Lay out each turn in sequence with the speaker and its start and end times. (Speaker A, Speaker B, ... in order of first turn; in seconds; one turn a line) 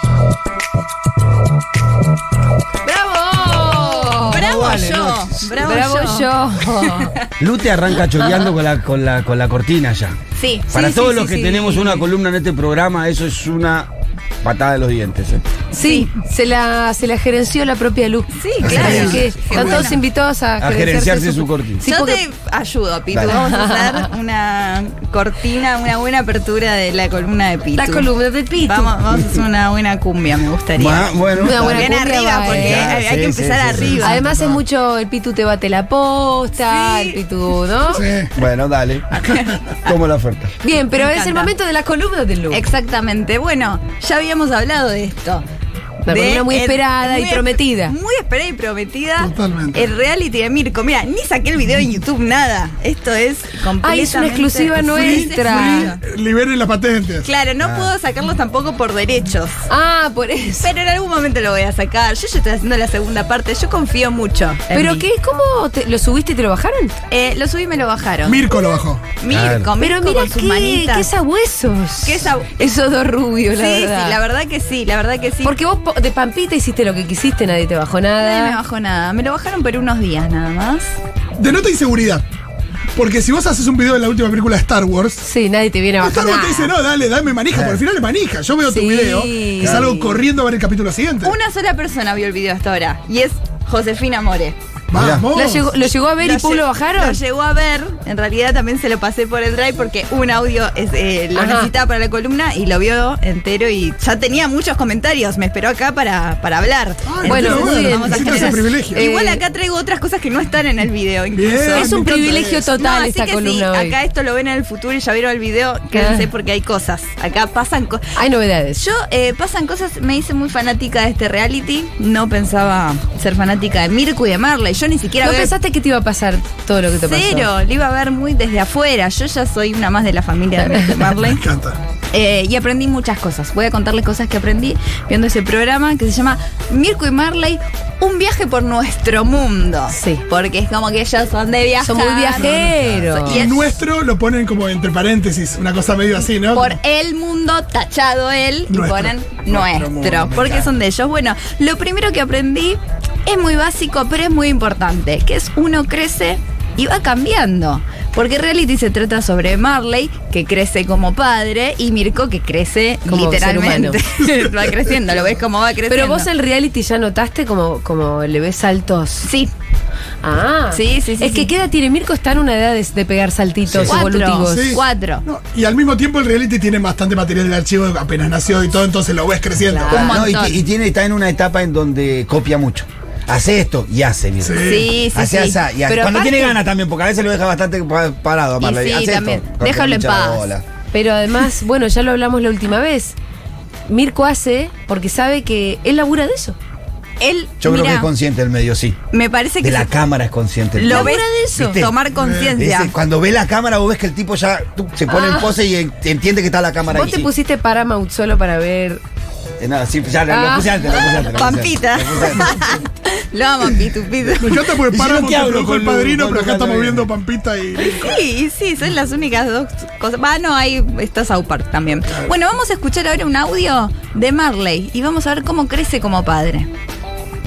Speaker A: 2.8-7.1
Speaker B: 4.3-7.3
Speaker C: 4.4-5.4
Speaker C: 7.4-13.9
Speaker A: 8.2-8.5
Speaker B: 10.3-10.8
Speaker A: 10.7-12.1
Speaker C: 14.4-15.4
Speaker A: 15.7-22.2
Speaker B: 15.8-16.1
Speaker B: 18.3-20.0
Speaker D: 18.6-19.9
Speaker C: 18.6-19.2
Speaker C: 20.6-21.8
Speaker B: 21.8-34.2
Speaker C: 23.1-23.4
Speaker A: 23.3-24.1
Speaker A: 27.7-28.9
Speaker C: 30.8-34.0
Speaker A: 31.4-32.9
Speaker A: 34.0-38.0
Speaker D: 34.2-34.6
Speaker B: 36.6-37.2
Speaker D: 37.9-38.3
Speaker C: 38.3-39.2
Speaker B: 39.2-39.9
Speaker C: 39.8-40.5
Speaker A: 40.6-42.6
Speaker B: 40.9-41.5
Speaker B: 42.5-45.4
Speaker A: 46.0-47.9
Speaker B: 46.1-56.0
Speaker D: 49.2-49.9
Speaker A: 53.8-55.9
Speaker D: 54.9-57.3
Speaker B: 57.2-59.6
Speaker C: 57.6-57.9
Speaker A: 59.7-60.7
Speaker B: 60.6-65.0
Speaker A: 64.7-66.9
Speaker B: 67.1-68.5
Speaker D: 68.2-69.0
Speaker B: 69.2-71.1
Speaker C: 69.3-69.7
Speaker A: 69.8-74.2
Speaker B: 72.0-72.7
Speaker B: 73.5-75.5
Speaker A: 75.4-78.6
Speaker B: 78.2-80.9
Speaker D: 81.4-82.2
Speaker D: 83.0-85.2
Speaker A: 85.2-86.7
Speaker D: 86.0-91.3
Speaker C: 87.5-87.8
Speaker A: 88.7-90.2
Speaker C: 89.6-89.9
Speaker B: 91.2-94.5
Speaker D: 94.9-95.7
Speaker C: 94.9-95.3
Speaker A: 95.3-97.2
Speaker B: 96.2-118.0
Speaker A: 101.3-101.7
Speaker D: 107.1-109.0
Speaker A: 107.2-109.4
Speaker D: 111.3-112.7
Speaker A: 111.5-113.9
Speaker A: 115.9-116.2
Speaker A: 118.2-118.8
Speaker B: 118.8-125.5
Speaker A: 125.2-127.5
Speaker B: 127.0-131.4
Speaker D: 131.2-131.8
Speaker B: 132.1-143.8
Speaker A: 139.9-140.2
Speaker A: 141.8-143.4
Speaker D: 143.3-146.7
Speaker B: 146.5-166.3
Speaker D: 148.7-150.7
Speaker A: 163.1-164.0
Speaker A: 165.9-169.3
Speaker B: 169.2-169.5
Speaker A: 170.2-174.8
Speaker B: 170.7-171.5
Speaker C: 173.7-174.0
Speaker B: 173.8-175.2
Speaker D: 174.4-180.1
Speaker A: 179.6-180.2
Speaker B: 179.9-180.6
Speaker C: 179.9-190.6
Speaker D: 184.4-184.9
Speaker B: 184.6-185.6
Speaker A: 185.9-186.6
Speaker B: 188.6-189.5
Speaker A: 189.6-193.2
Speaker A: 193.9-196.6
Speaker B: 197.2-198.1
Speaker C: 197.6-199.0
Speaker B: 199.1-199.9
Speaker C: 199.6-202.0
Speaker B: 200.8-202.9
Speaker A: 200.9-201.2
Speaker D: 202.2-202.5
Speaker C: 202.5-207.3
Speaker A: 205.1-205.5
Speaker A: 206.9-209.0
Speaker C: 209.6-212.8
Speaker A: 210.3-211.0
Speaker B: 211.0-214.8
Speaker D: 214.4-218.2
Speaker C: 214.9-217.1
Speaker B: 217.8-226.7